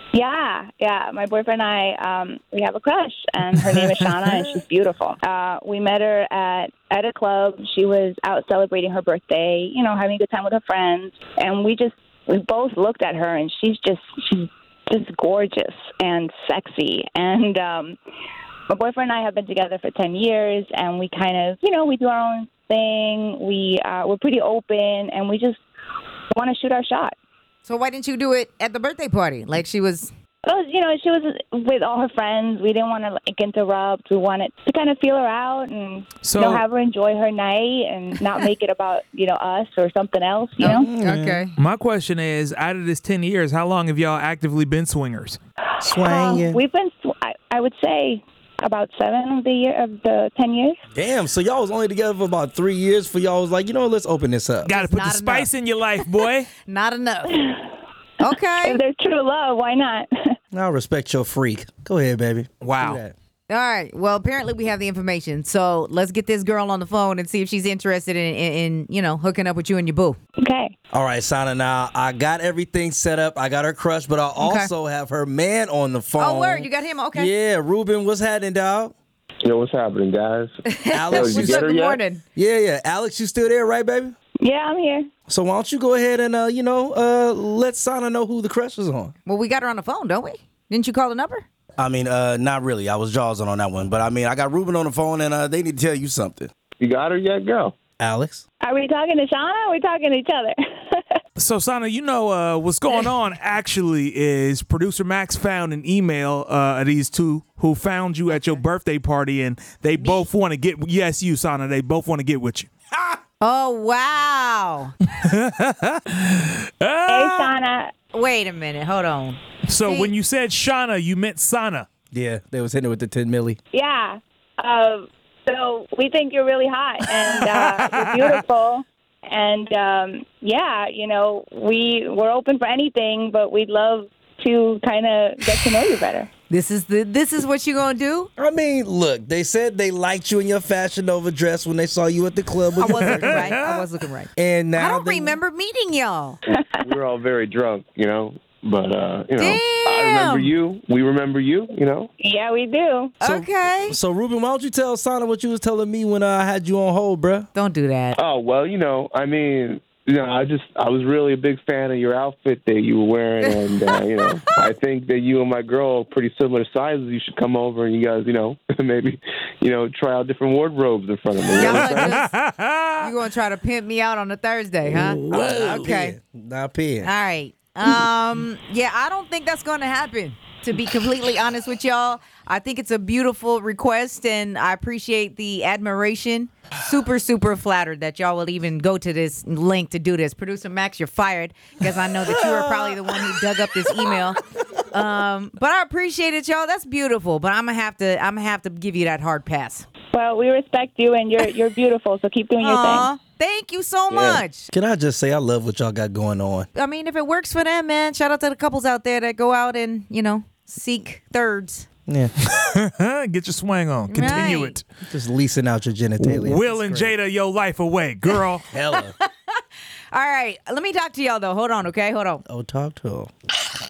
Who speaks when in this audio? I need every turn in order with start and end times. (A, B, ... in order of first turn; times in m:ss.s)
0:00.1-0:18.0 A
0:18.7-0:25.6 A
0:26.3-0:27.1 A
0:27.6-0:30.1 B
0:30.4-0:40.9 A
0:36.2-0:36.6 C
0:40.6-0:41.6 B
0:40.7-0:41.4 D
0:41.6-0:45.4 C
0:45.8-0:46.6 D
0:45.8-0:50.8 A
0:50.9-0:54.7 D
0:54.6-0:55.5 B
0:54.7-0:56.5 C
0:56.7-0:57.4 B
0:57.3-0:57.7 A
0:58.2-0:58.8 B
0:58.2-1:00.1 A
1:00.5-1:03.1 D
1:02.6-1:03.0 C
1:03.5-1:10.2 B
1:10.4-1:10.7 A
1:10.9-1:18.9 D
1:14.4-1:14.7 B
1:16.2-1:17.3 B
1:19.4-1:22.0 E
1:20.7-1:22.2 B
1:20.9-1:21.7 D
1:22.3-1:24.1 D
1:24.4-1:25.1 A
1:25.3-1:29.1 D
1:29.2-1:31.4 B
1:31.8-1:36.5 D
1:36.8-1:37.8 E
1:38.0-1:38.4 D
1:38.6-1:41.0 A
1:41.4-1:53.2 C
1:48.3-1:48.6 B
1:53.4-1:54.9 B
1:55.1-1:57.5 C
1:57.1-1:57.9 A
1:58.1-2:00.1 B
1:59.7-2:01.9 C
2:02.1-2:03.6 D
2:03.7-2:16.3 A
2:07.4-2:08.3 C
2:16.5-2:18.3 B
2:18.4-2:23.6 D
2:22.8-2:26.4 B
2:22.9-2:23.8 C
2:24.4-2:25.4 D
2:26.8-2:32.1 E
2:29.4-2:30.5 B
2:32.2-2:33.2 A
2:33.2-2:34.0 B
2:33.2-2:37.5 D
2:37.5-2:38.2 B
2:38.2-2:52.2 E
2:51.5-2:52.2 B
2:51.6-2:53.1 C
2:53.0-2:56.2 B
2:55.0-2:55.9 C
2:55.3-2:57.1 D
2:57.0-3:14.4 B
3:12.2-3:13.3 D
3:14.9-3:19.8 B
3:20.1-3:23.1 A
3:22.6-3:24.7 B
3:24.1-3:24.4 E
3:24.7-3:26.7 D
3:26.8-3:31.9 B
3:32.1-3:32.3 D
3:32.5-3:34.8 C
3:34.1-3:34.8 B
3:35.1-3:37.2 D
3:36.2-3:38.6 C
3:38.7-3:39.1 D
3:38.9-3:39.6 B
3:40.1-3:42.4 B
3:42.5-3:43.3 D